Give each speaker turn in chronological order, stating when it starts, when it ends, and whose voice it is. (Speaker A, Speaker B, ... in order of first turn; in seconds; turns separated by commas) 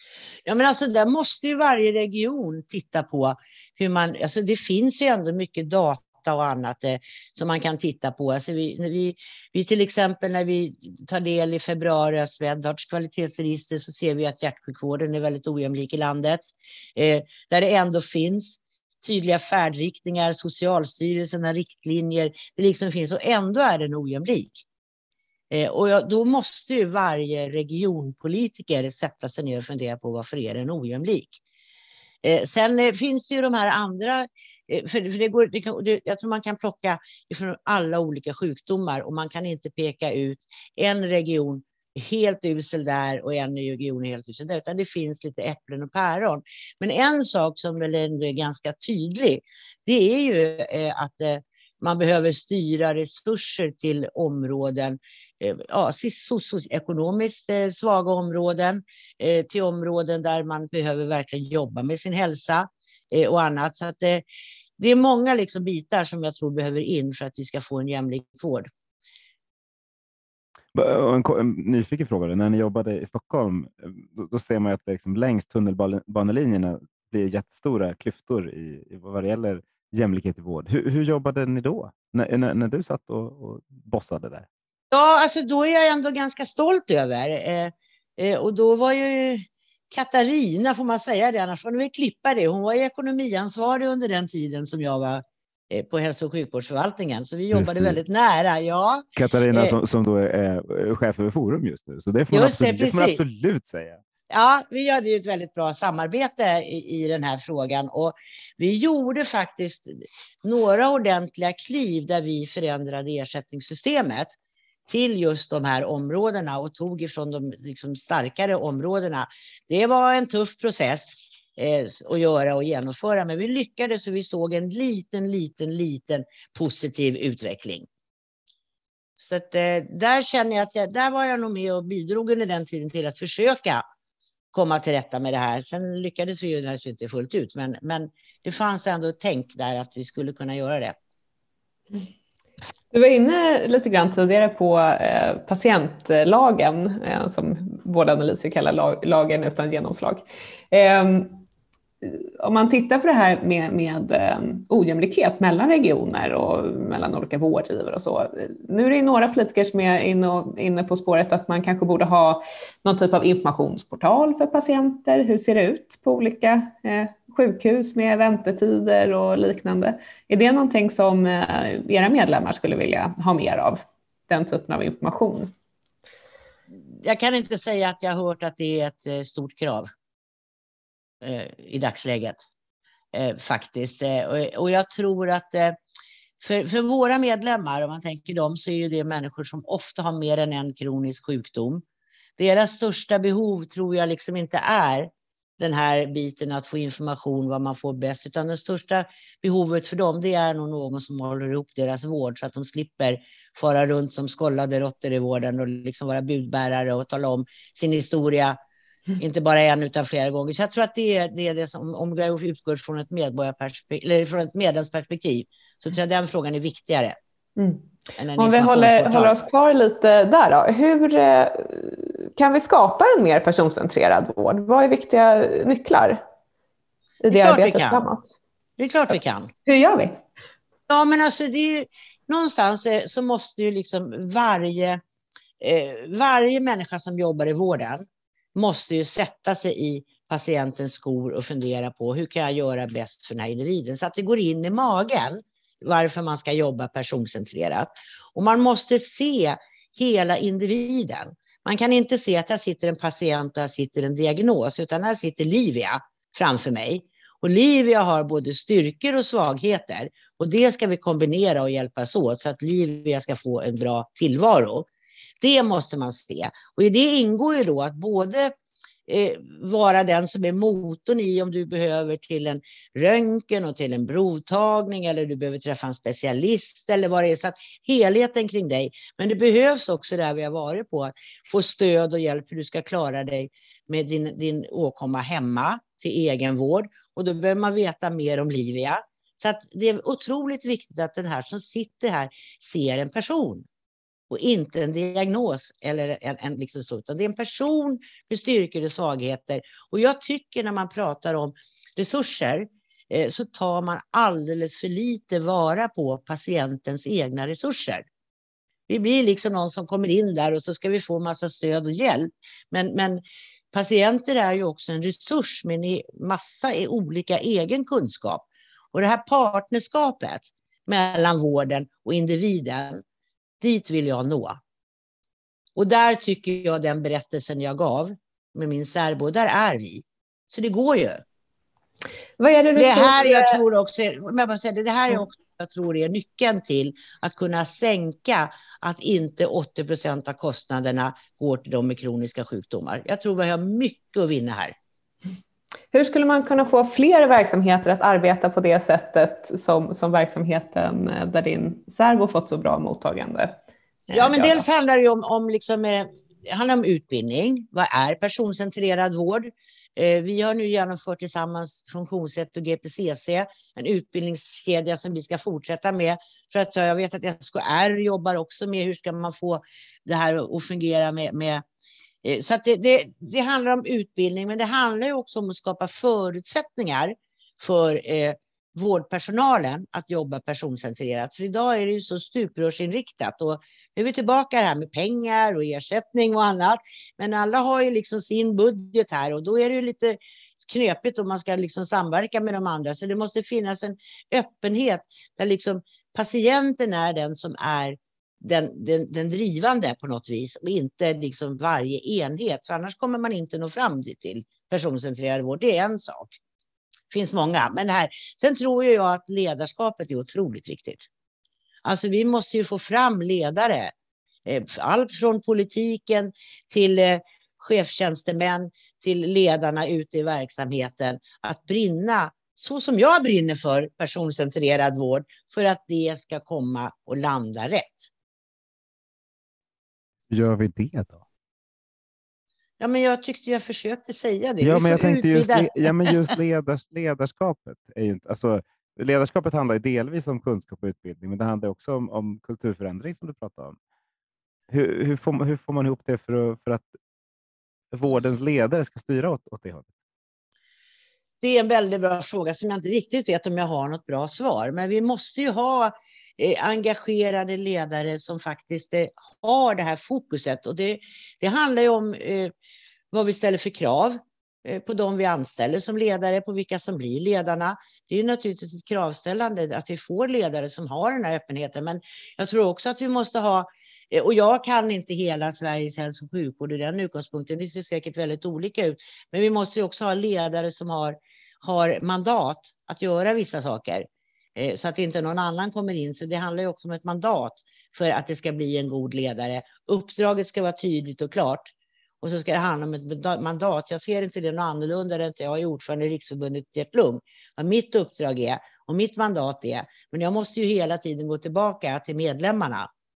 Speaker A: 0.5-24.6, Speaker A: 25.5-31.4, Speaker A: 32.2-64.2, Speaker A: 64.8-68.7, Speaker B: 70.7-84.5, Speaker A: 84.9-99.8, Speaker B: 97.5-98.0, Speaker B: 99.2-104.0, Speaker A: 102.3-103.2, Speaker A: 104.3-114.3, Speaker A: 114.9-127.9, Speaker A: 129.2-133.8, Speaker A: 134.5-140.9, Speaker C: 142.9-151.4, Speaker C: 152.0-175.5, Speaker A: 176.9-179.9, Speaker A: 181.2-182.4, Speaker A: 183.1-185.8, Speaker A: 186.4-191.8, Speaker A: 192.4-208.6, Speaker A: 209.2-217.2, Speaker C: 217.6-226.2, Speaker A: 218.2-219.4, Speaker C: 227.2-228.4, Speaker A: 227.3-228.1, Speaker A: 228.8-229.5, Speaker C: 229.7-230.2, Speaker A: 230.9-235.0, Speaker A: 235.6-264.9, Speaker A: 265.4-268.5, Speaker A: 269.1-293.6, Speaker A: 294.3-308.1, Speaker A: 308.9-323.0, Speaker A: 323.6-324.6, Speaker A: 325.8-331.2, Speaker C: 332.4-333.6, Speaker A: 332.7-344.7, Speaker C: 345.9-353.6, Speaker C: 354.1-354.6, Speaker A: 354.1-371.6, Speaker A: 372.2-406.4, Speaker A: 407.1-411.1, Speaker A: 411.8-413.9, Speaker A: 414.4-428.1, Speaker B: 430.3-431.2, Speaker A: 432.8-436.3, Speaker B: 434.6-443.8, Speaker B: 444.7-446.9, Speaker B: 447.9-449.9, Speaker A: 451.4-462.5, Speaker A: 463.1-502.9